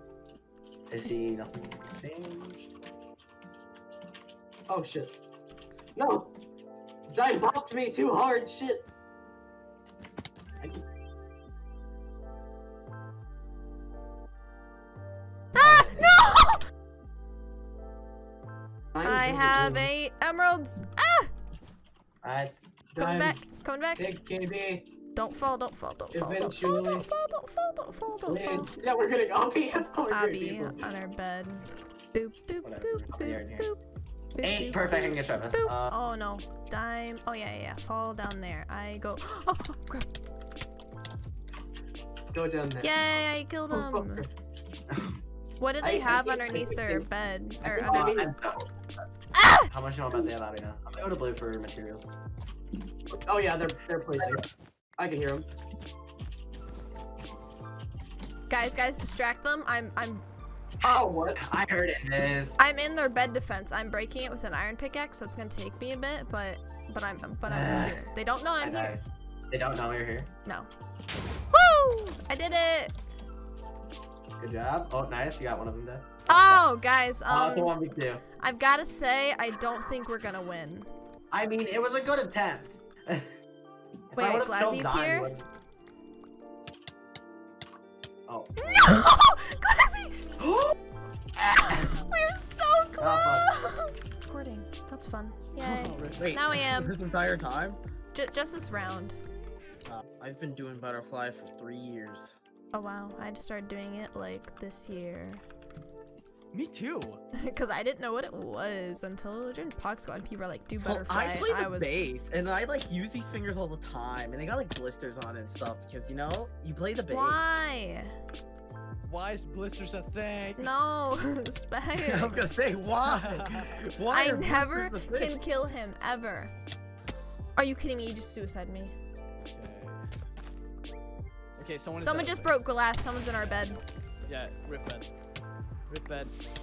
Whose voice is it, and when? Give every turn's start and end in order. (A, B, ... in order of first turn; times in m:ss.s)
0:00.9-0:02.7 A
0:04.7-0:05.1 B
0:06.0-0:06.3 B
0:07.1-0:08.8 B
0:15.6-0:16.6 C
0:15.6-0:16.1 B
0:19.0-0:19.8 B
0:19.0-0:21.3 C
0:22.2-0:22.6 A
0:22.9-0:23.4 B
0:23.0-0:24.1 C
0:24.0-0:24.8 B
0:25.2-0:28.7 C
0:26.1-0:27.1 B
0:28.3-0:30.8 B
0:30.0-0:33.8 C
0:32.6-0:33.7 A
0:34.3-0:40.1 C
0:34.4-0:36.0 A
0:42.3-0:42.9 B
0:42.8-0:44.3 C
0:43.7-0:44.3 B
0:45.6-0:48.3 C
0:45.8-0:47.0 B
0:47.8-0:48.7 A
0:47.8-0:48.3 B
0:49.4-0:49.7 C
0:49.7-0:52.0 A
0:53.2-0:54.4 B
0:55.0-0:55.4 B
0:58.5-1:00.2 C
1:00.8-1:02.6 A
1:02.6-1:09.0 C
1:07.4-1:08.0 A
1:08.6-1:10.3 A
1:11.5-1:12.9 C
1:14.4-1:16.6 A
1:16.3-1:17.8 C
1:17.3-1:18.2 A
1:18.3-1:20.9 C
1:21.3-1:23.3 A
1:24.1-1:25.4 A
1:24.2-1:25.3 C
1:28.3-1:28.8 A
1:28.6-1:30.2 C
1:30.4-1:30.8 A
1:31.4-1:31.9 A
1:31.5-1:37.0 C
1:33.0-1:33.5 A
1:35.6-1:36.3 D
1:36.1-1:37.8 E
1:38.1-1:39.2 C
1:39.9-1:42.4 E
1:42.7-1:45.4 C
1:46.5-1:47.2 D
1:47.4-1:52.1 C
1:50.8-1:57.4 E
1:51.8-1:52.5 A
1:57.1-1:58.1 C
1:59.0-2:00.7 D
2:00.6-2:02.5 C
2:02.1-2:05.4 E
2:03.0-2:03.8 D
2:04.1-2:06.5 C
2:07.6-2:08.9 C
2:09.5-2:10.1 D
2:11.6-2:12.6 D
2:12.0-2:13.8 C
2:13.4-2:15.1 D
2:15.9-2:16.3 D